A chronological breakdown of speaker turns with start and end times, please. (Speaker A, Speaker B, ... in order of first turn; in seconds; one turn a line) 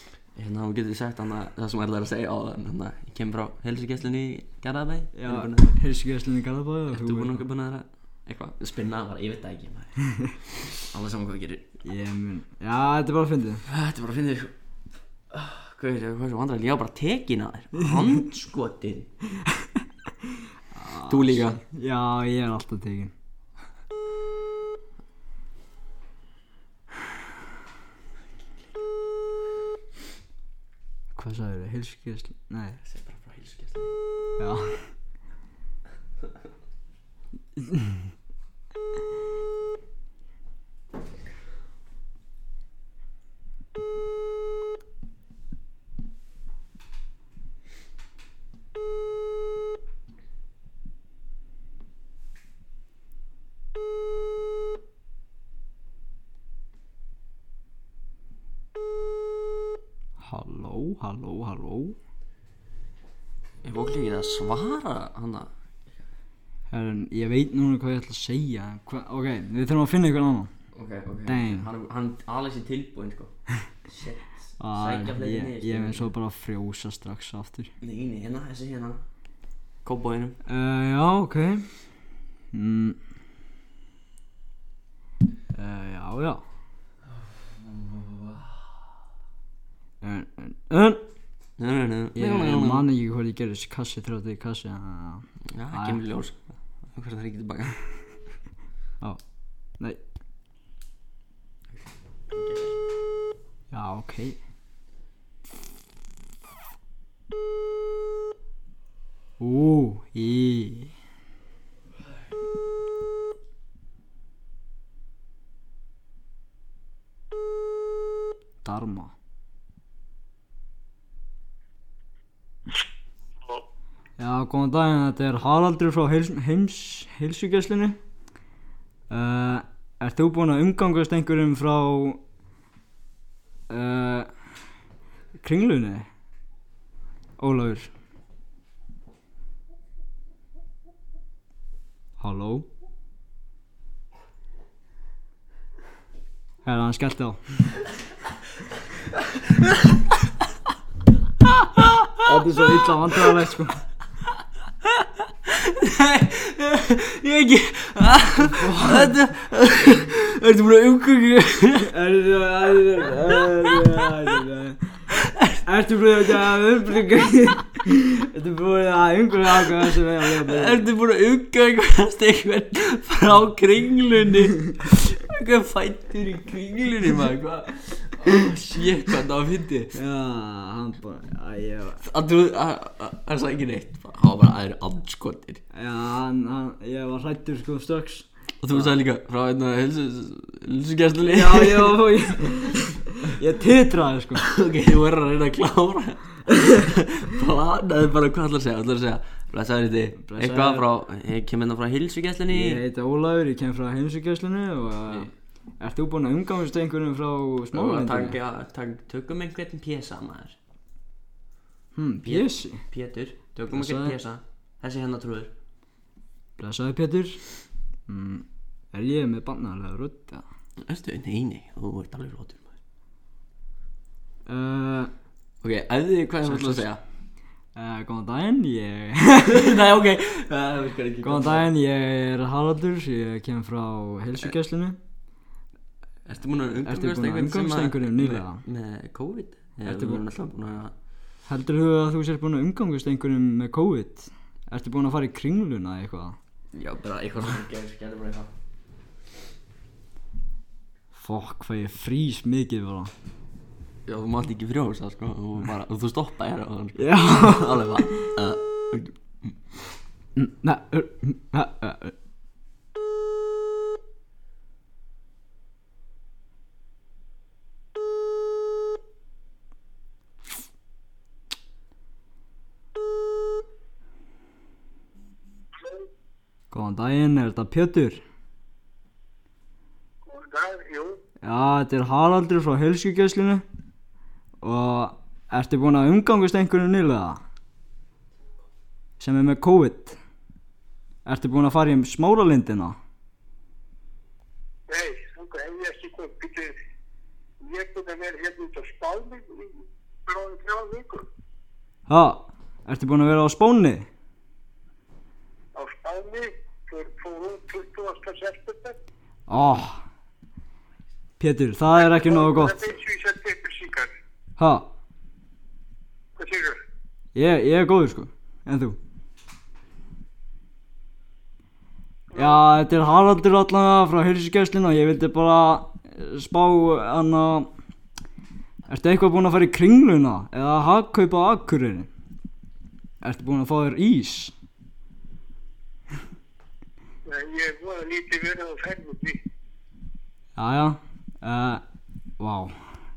Speaker A: 0.3-5.8
Speaker B: 5.2-7.4
Speaker A: 6.9-9.9
Speaker B: 10.1-10.3
Speaker A: 10.5-11.8
Speaker B: 11.8-13.7
Speaker A: 13.7-14.5
Speaker A: 15.3-19.1
Speaker B: 19.4-23.1
Speaker A: 21.1-21.6
Speaker B: 31.1-32.8
Speaker A: 32.8-33.9
Speaker B: 34.4-35.0
Speaker B: 37.6-38.0
Speaker B: 60.2-62.0
Speaker A: 63.6-65.5
Speaker B: 66.7-70.5
Speaker A: 70.7-73.3
Speaker B: 71.3-71.7
Speaker A: 73.8-76.1
Speaker B: 74.6-77.7
Speaker A: 77.8-79.0
Speaker A: 79.8-80.4
Speaker B: 80.5-81.7
Speaker B: 82.5-83.0
Speaker B: 85.5-86.4
Speaker A: 87.1-88.8
Speaker B: 90.0-91.0
Speaker A: 91.6-92.9
Speaker B: 92.2-96.0
Speaker A: 95.5-97.8
Speaker A: 101.8-102.8
Speaker B: 103.7-104.4
Speaker B: 109.4-110.9
Speaker B: 118.6-119.1
Speaker B: 124.2-128.0
Speaker B: 129.1-132.2
Speaker B: 133.7-134.3
Speaker B: 135.4-136.1
Speaker B: 137.4-137.9
Speaker B: 142.2-142.7
Speaker B: 146.7-147.4
Speaker A: 151.6-152.2
Speaker B: 152.2-153.8
Speaker A: 155.4-161.9
Speaker B: 158.4-159.2
Speaker B: 161.9-165.0
Speaker A: 165.2-165.6
Speaker B: 165.6-170.9
Speaker A: 169.8-179.9
Speaker B: 179.9-182.0
Speaker A: 182.0-185.6
Speaker B: 185.7-188.9
Speaker A: 188.6-192.4
Speaker B: 191.3-194.5
Speaker A: 194.4-202.8
Speaker B: 196.5-196.8
Speaker B: 200.2-200.9
Speaker B: 202.5-208.4
Speaker A: 207.7-210.6
Speaker B: 211.9-212.8
Speaker A: 212.2-215.5
Speaker B: 213.7-214.2
Speaker B: 216.6-217.4
Speaker B: 218.1-220.4
Speaker A: 220.8-222.7
Speaker B: 224.5-225.1
Speaker A: 225.6-227.0
Speaker B: 226.4-226.9
Speaker B: 227.8-229.8
Speaker A: 229.4-231.7
Speaker B: 231.2-235.0
Speaker A: 236.2-240.9
Speaker B: 236.8-238.6
Speaker B: 239.8-240.2
Speaker B: 241.5-246.4
Speaker A: 246.7-248.5
Speaker B: 251.2-253.1
Speaker A: 254.1-259.6
Speaker B: 257.0-258.0
Speaker B: 260.4-262.1
Speaker B: 276.7-278.2
Speaker C: 280.3-281.2
Speaker B: 281.4-283.6
Speaker B: 284.6-287.4
Speaker B: 289.2-290.2
Speaker B: 291.2-293.0
Speaker C: 294.9-296.8
Speaker C: 297.6-301.2
Speaker B: 302.1-304.1
Speaker C: 305.8-309.0
Speaker B: 309.5-310.0
Speaker B: 311.4-312.8
Speaker C: 312.0-314.1
Speaker B: 314.6-314.9
Speaker C: 316.4-316.8
Speaker B: 317.4-319.0
Speaker C: 322.3-322.6
Speaker B: 322.4-327.7
Speaker B: 328.9-332.1
Speaker B: 333.2-334.5
Speaker C: 337.3-339.4
Speaker B: 340.6-341.8
Speaker B: 342.4-342.8